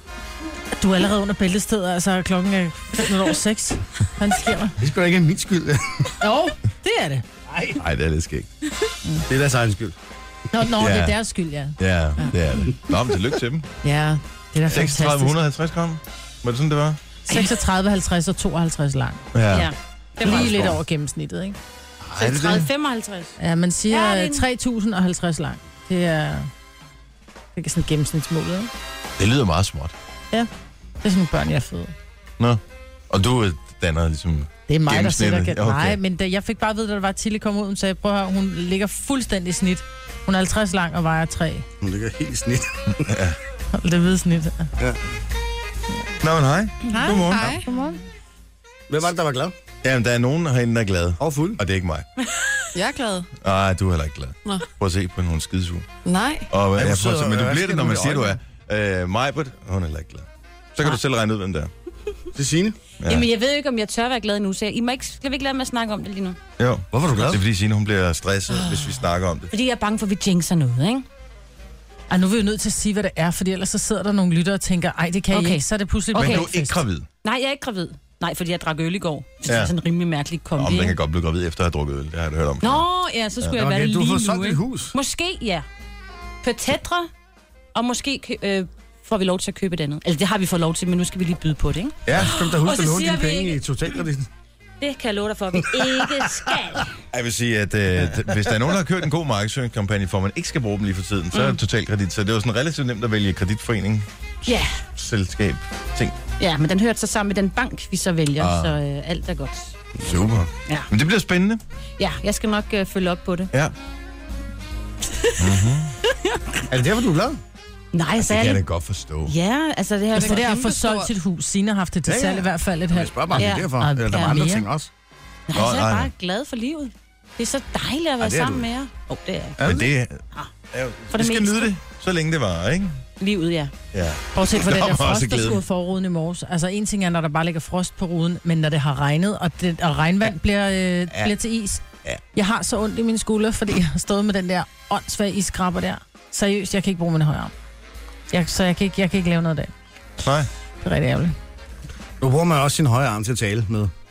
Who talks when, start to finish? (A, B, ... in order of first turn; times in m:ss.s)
0:00.8-0:04.8 A
0:04.8-0:06.1 B
0:06.2-0:07.2 A
0:07.5-0:07.8 B
0:07.8-0:08.5 C
0:09.3-0:10.0 B
0:10.5-0:11.8 A
0:10.8-0:11.2 C
0:11.8-0:13.7 C
0:13.8-0:15.3 A
0:14.7-0:17.0 C
0:17.3-0:19.2 A
0:17.3-0:17.5 D
0:19.3-0:20.8 C
0:19.5-0:20.7 D
0:20.2-0:21.6 A
0:22.0-0:22.7 C
0:22.1-0:23.4 D
0:23.4-0:26.5 A
0:23.9-0:24.4 D
0:27.5-0:28.7 A
0:29.2-0:29.9 C
0:31.0-0:31.9 A
0:32.4-0:36.0 C
0:34.7-0:41.6 A
0:41.8-0:43.1 B
0:43.0-0:43.4 C
0:43.7-0:44.7 A
0:46.2-0:47.6 C
0:46.9-0:48.0 A
0:47.1-0:47.6 E
0:48.9-0:49.5 B
0:49.8-0:52.1 C
0:51.2-0:51.6 B
0:52.7-0:53.3 E
0:53.4-0:55.9 C
0:56.0-0:56.5 E
0:56.5-1:01.7 C
0:56.7-0:58.4 B
1:02.3-1:02.8 B
1:03.0-1:03.3 C
1:03.0-1:06.4 D
1:06.6-1:09.5 C
1:06.9-1:07.4 B
1:08.6-1:08.9 D
1:09.5-1:11.0 D
1:12.1-1:16.8 A
1:15.3-1:15.6 D
1:16.1-1:16.5 D
1:16.1-1:17.1 C
1:17.2-1:21.0 D
1:19.4-1:19.7 C
1:20.5-1:22.8 C
1:22.6-1:25.6 D
1:23.5-1:24.9 B
1:26.4-1:27.1 D
1:27.7-1:33.6 D
1:32.0-1:34.3 B
1:34.8-1:36.9 D
1:35.7-1:36.2 B
1:37.1-1:44.1 C
1:41.3-1:41.6 D
1:44.4-1:44.8 D
1:44.9-1:46.2 C
1:46.4-1:49.8 D
1:48.4-1:48.8 C
1:50.0-1:50.5 B
1:50.0-1:51.6 C
1:52.0-1:53.5 D
1:55.4-1:56.0 C
1:56.1-1:56.4 D
1:56.7-1:57.4 B
1:57.9-1:58.6 D
1:58.2-1:59.3 C
1:59.2-2:00.4 D
2:00.1-2:01.1 E
2:00.2-2:04.6 A
2:02.0-2:04.9 B
2:03.3-2:04.4 D
2:05.5-2:09.8 D
2:05.5-2:06.1 C
2:08.2-2:08.7 B
2:09.6-2:12.9 C
2:11.1-2:11.7 D
2:13.2-2:13.7 D
2:13.9-2:15.6 C
2:14.3-2:27.5 A
2:28.3-2:29.7 A
2:30.2-2:30.5 C
2:30.8-2:31.4 A
2:32.2-2:33.9 B